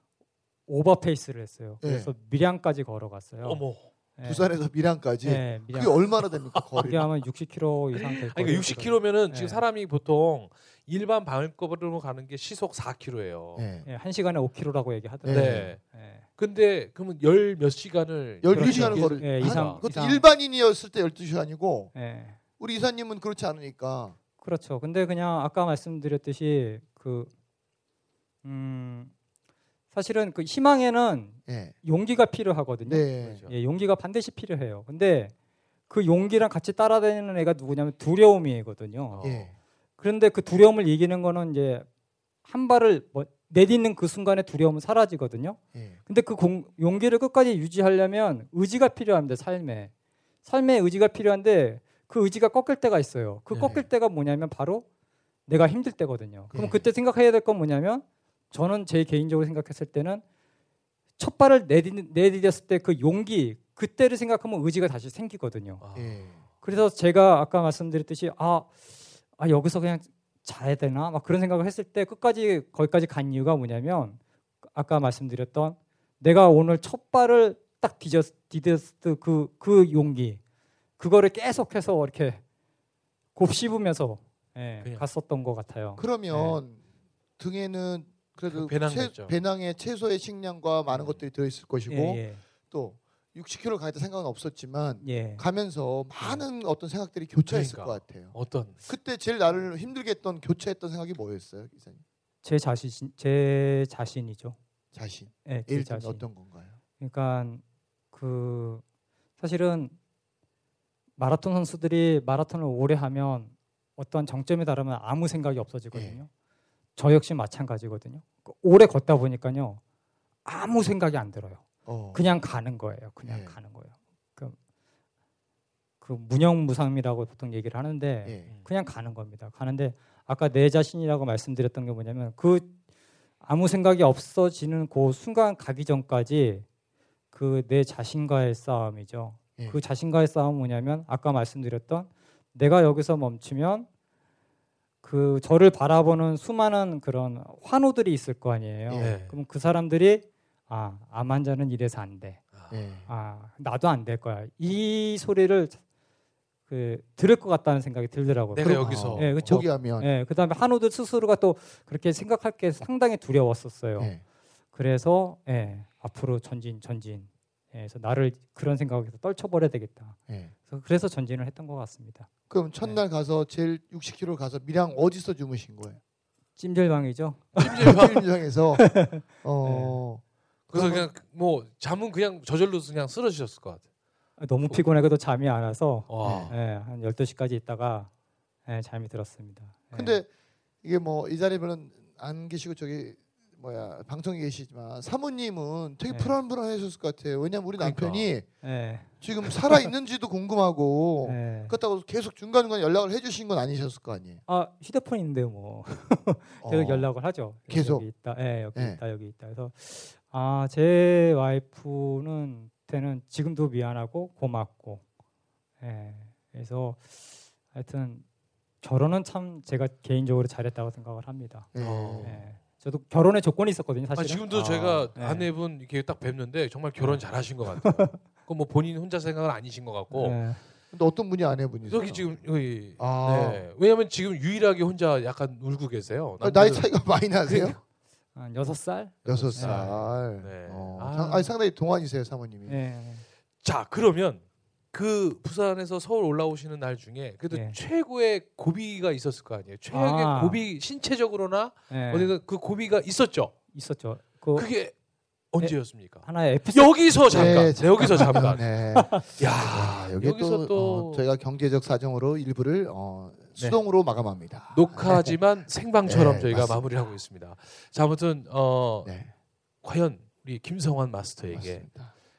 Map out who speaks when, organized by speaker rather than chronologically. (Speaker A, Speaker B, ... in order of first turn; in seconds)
Speaker A: 0.7-3.6, 4.2-4.5, 5.2-6.1, 6.7-9.6, 13.8-16.2, 18.5-20.2, 21.9-22.4, 24.4-27.3, 28.4-29.1, 29.9-35.3, 35.9-39.3, 40.0-41.9, 42.4-49.9, 50.4-54.9, 55.5-60.2, 61.2-65.8, 66.6-80.4, 81.0-82.4, 83.3-86.0, 91.9-92.4, 95.0-95.4, 102.4-104.5, 105.5-106.2, 107.0-108.8, 109.4-110.0, 111.2-116.3, 117.0-119.8, 120.4-124.5, 126.0-132.7, 133.4-136.6, 137.3-143.9, 145.0-152.4, 153.1-155.8, 156.7-164.1, 164.7-172.3, 176.6-178.1, 178.8-180.0, 184.4-188.1, 188.7-190.2, 196.1-196.3, 198.6-199.9, 201.2-201.7, 204.5-215.0, 215.8-218.2, 218.8-225.5, 227.8-228.2, 230.1-230.6, 238.3-239.8, 242.7-243.2, 247.5-247.8, 249.9-250.6, 251.9-252.3, 253.7-254.7, 255.6-258.4, 258.9-259.2
Speaker B: 1.8-2.1, 4.2-7.1, 13.6-13.9, 15.2-15.7, 18.4-21.9, 22.6-24.2, 31.5-31.7, 32.8-33.5, 39.2-39.5, 56.5-56.8, 65.9-66.4, 86.0-86.8, 87.4-102.0, 104.9-106.8, 115.9-116.2, 121.8-122.2, 123.2-123.5, 128.2-128.5, 148.9-149.2, 152.7-153.1, 158.6-160.1, 172.5-176.0, 177.8-181.1, 186.2-186.5, 189.9-190.3, 190.8-198.5, 199.2-204.4, 206.6-207.1, 207.7-208.1, 208.7-209.0, 221.7-222.4, 224.5-225.1, 230.9-232.3, 233.0-233.6, 236.4-237.8, 239.2-242.8, 257.3-265.4, 266.0-266.9, 269.0-269.3, 271.5-272.1
Speaker C: 3.4-3.9, 7.9-13.7, 15.3-19.8, 33.2-33.5, 39.1-39.5, 65.8-66.2, 86.3-86.6, 88.5-89.4, 90.9-91.2, 97.5-98.8, 149.0-149.3, 152.5-152.8, 158.5-159.5, 177.6-178.2, 180.7-183.8, 186.1-186.5, 197.8-198.2, 221.8-222.4, 224.2-230.4, 231.9-236.9, 237.4-237.8, 239.2-241.5, 243.6-253.5, 254.6-254.9, 255.5-261.2, 264.7-269.1, 269.8-271.9